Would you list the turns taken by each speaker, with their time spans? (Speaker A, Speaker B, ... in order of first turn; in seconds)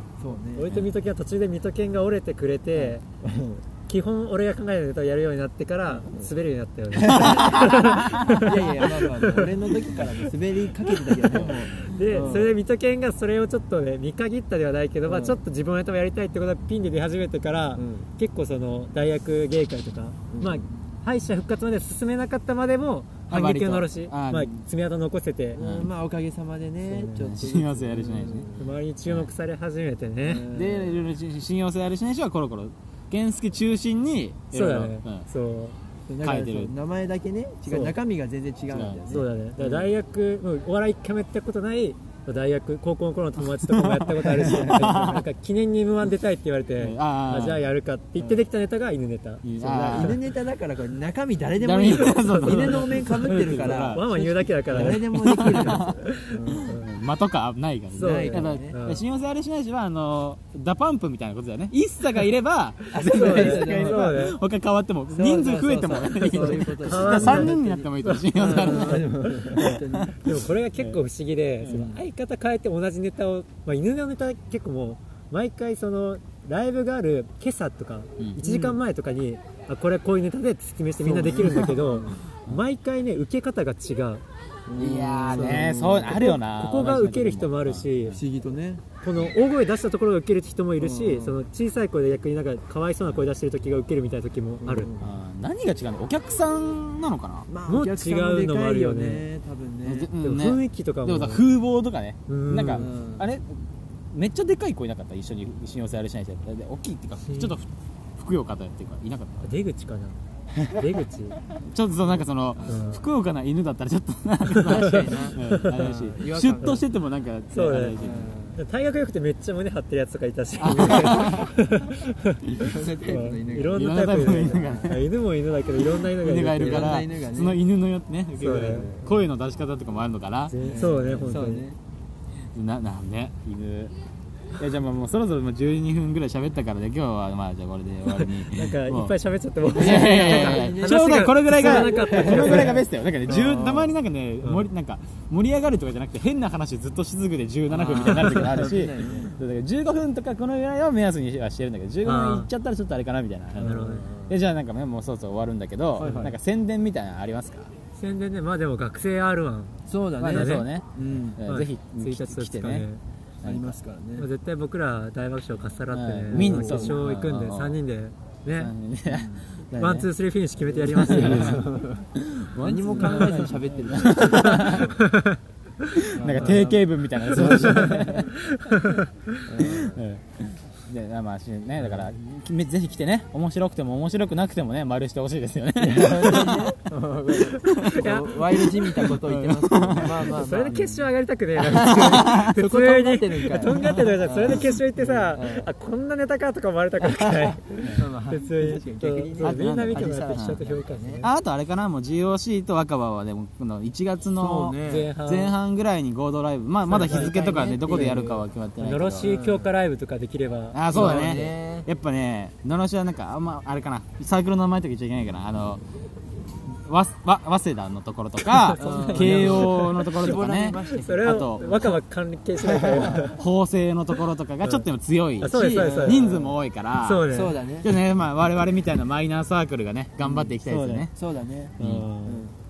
Speaker A: 0.2-0.7, 2.7-3.6, 5.9-6.3, 7.0-7.7, 8.3-12.5, 15.0-15.4, 17.8-18.1, 20.3-20.7, 25.5-28.7, 30.2-31.0, 36.1-39.8, 49.6-56.7, 58.0-58.7, 63.1-64.2, 65.1-70.1, 71.6-72.0, 81.0-82.2, 84.7-86.3, 88.1-88.8, 90.8-91.4, 94.6-95.1, 97.5-100.1, 102.7-103.2, 114.6-116.8, 118.0-118.6, 122.6-123.8, 124.4-124.8, 126.5-127.6, 130.6-131.8, 139.7-144.0, 147.7-149.3, 153.6-154.3, 156.0-156.3, 159.9-161.4, 163.4-164.3, 166.3-167.0, 169.1-169.5, 170.6-172.0, 172.6-175.0, 176.1-178.2, 179.4-180.0, 185.8-190.8, 191.8-195.7, 197.0-201.2, 204.4-205.1, 206.8-208.4, 209.2-209.7, 210.9-211.9, 218.8-221.9, 222.6-223.2, 225.7-226.6, 227.3-227.9, 231.1-232.5
Speaker B: 0.5-3.0, 3.9-9.6, 10.8-25.6, 26.9-27.3, 28.6-30.5, 34.5-35.8, 37.6-38.0, 39.1-50.2, 51.9-56.8, 58.0-59.0, 63.0-64.4, 66.2-84.2, 85.3-88.2, 89.0-94.9, 97.7-99.2, 100.2-101.4, 102.3-102.9, 109.4-110.2, 110.7-111.4, 112.6-113.0, 115.4-115.9, 117.5-118.0, 118.5-127.0, 128.4-129.0, 130.5-131.6, 138.5-142.8, 144.4-144.7, 148.1-148.4, 152.0-152.5, 153.6-154.1, 158.0-159.8, 160.3-160.7, 161.4-163.0, 164.2-168.7, 169.8-171.8, 172.9-173.5, 174.4-175.4, 177.7-179.5, 187.8-188.9, 190.1-201.3, 204.4-205.6, 207.0-207.3, 207.9-208.2, 208.8-211.5, 218.5-223.4, 225.4-226.3, 227.0-227.6, 230.6-231.1, 231.8-232.4
Speaker C: 23.3-24.6, 25.6-25.9, 27.2-28.5, 30.5-35.2, 36.2-36.7, 38.7-39.0, 43.7-45.2, 46.8-47.6, 49.4-50.2, 51.6-54.0, 54.8-56.0, 56.5-71.0, 78.2-78.7, 84.8-88.2, 95.0-97.5, 99.8-109.5, 111.7-118.3, 120.6-121.5, 123.7-125.1, 125.8-131.5, 132.5-133.9, 134.6-139.1, 139.7-157.7, 160.2-160.8, 161.4-162.9, 165.9-167.8, 168.5-170.1, 170.8-174.9, 176.1-178.3, 179.7-186.7, 187.7-188.0, 189.0-191.0, 191.6-192.5, 199.4-200.6, 201.2-209.3, 210.7-215.8, 216.7-221.9, 223.2-227.2, 227.8-231.1, 231.8-232.1